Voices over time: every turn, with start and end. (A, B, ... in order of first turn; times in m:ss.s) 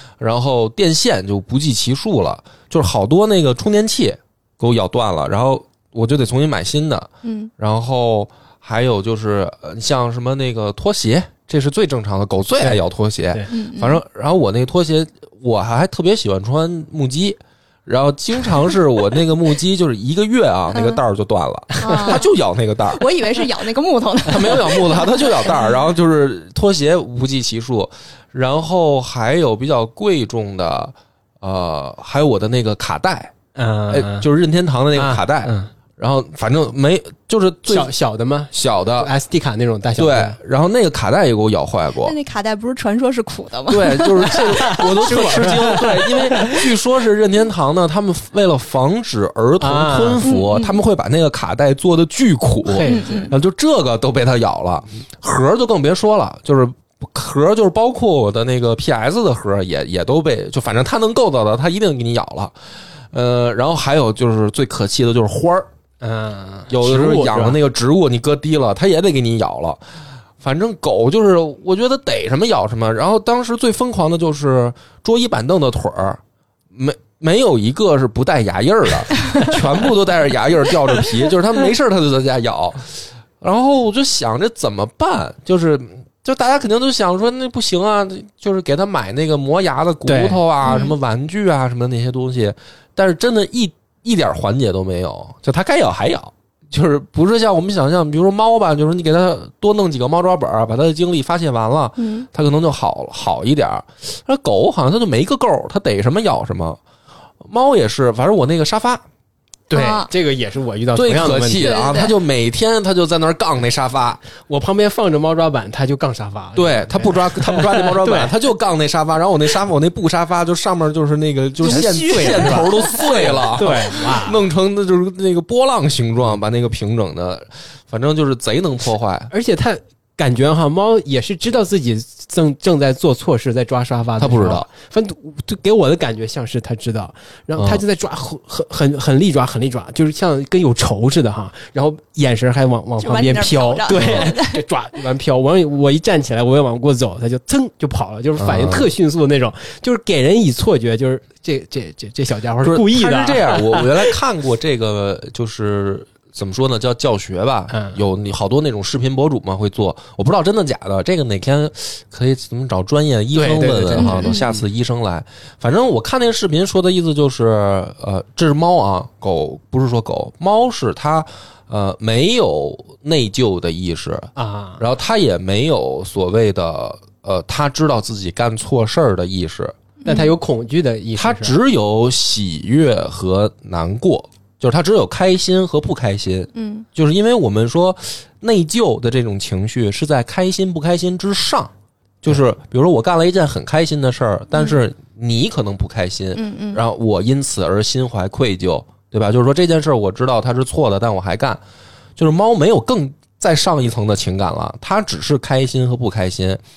0:00.2-0:23.0 A
0:07.2-0:07.5 B
0:13.5-0:14.0 B
0:20.7-0:21.0 B
0:21.8-0:22.3 B
0:22.9-0:25.4 B
0:24.2-0:33.3 A
0:33.6-0:34.3 C
0:33.9-0:37.9 A
0:34.9-0:35.7 C
0:37.7-0:40.4 C
0:38.5-0:39.1 A
0:40.0-0:42.2 A
0:42.0-0:45.8 B
0:43.7-1:02.5 A
0:44.7-0:46.7 C
0:49.6-0:50.3 C
0:50.2-0:50.8 B
0:52.7-0:53.3 C
0:52.8-0:53.3 B
1:03.1-1:05.7 A
1:06.0-1:07.6 C
1:06.7-1:09.8 A
1:10.4-1:16.2 A
1:16.7-1:46.8 A
1:30.1-1:30.4 C
1:30.6-1:30.9 B
1:42.0-1:42.3 B
1:47.4-1:49.0 A
1:49.7-1:51.7 C
1:49.7-1:50.1 B
1:50.9-1:54.2 A
1:51.6-1:52.1 B
1:54.5-1:58.3 C
1:56.6-2:09.3 A
2:01.6-2:04.4 C
2:09.3-2:34.1 C
2:14.2-2:14.7 A
2:17.6-2:17.8 A
2:23.0-2:24.6 B
2:23.9-2:24.3 A
2:28.4-2:28.9 A
2:32.6-2:59.7 A
2:37.7-2:38.0 C
2:43.3-2:44.6 C
2:44.0-2:44.4 B
2:54.4-2:54.8 C
3:00.0-3:00.3 B
3:00.0-3:01.5 C
3:01.1-3:11.7 A
3:06.5-3:06.8 B
3:12.2-3:21.6 A
3:16.3-3:16.8 B
3:22.2-3:26.6 A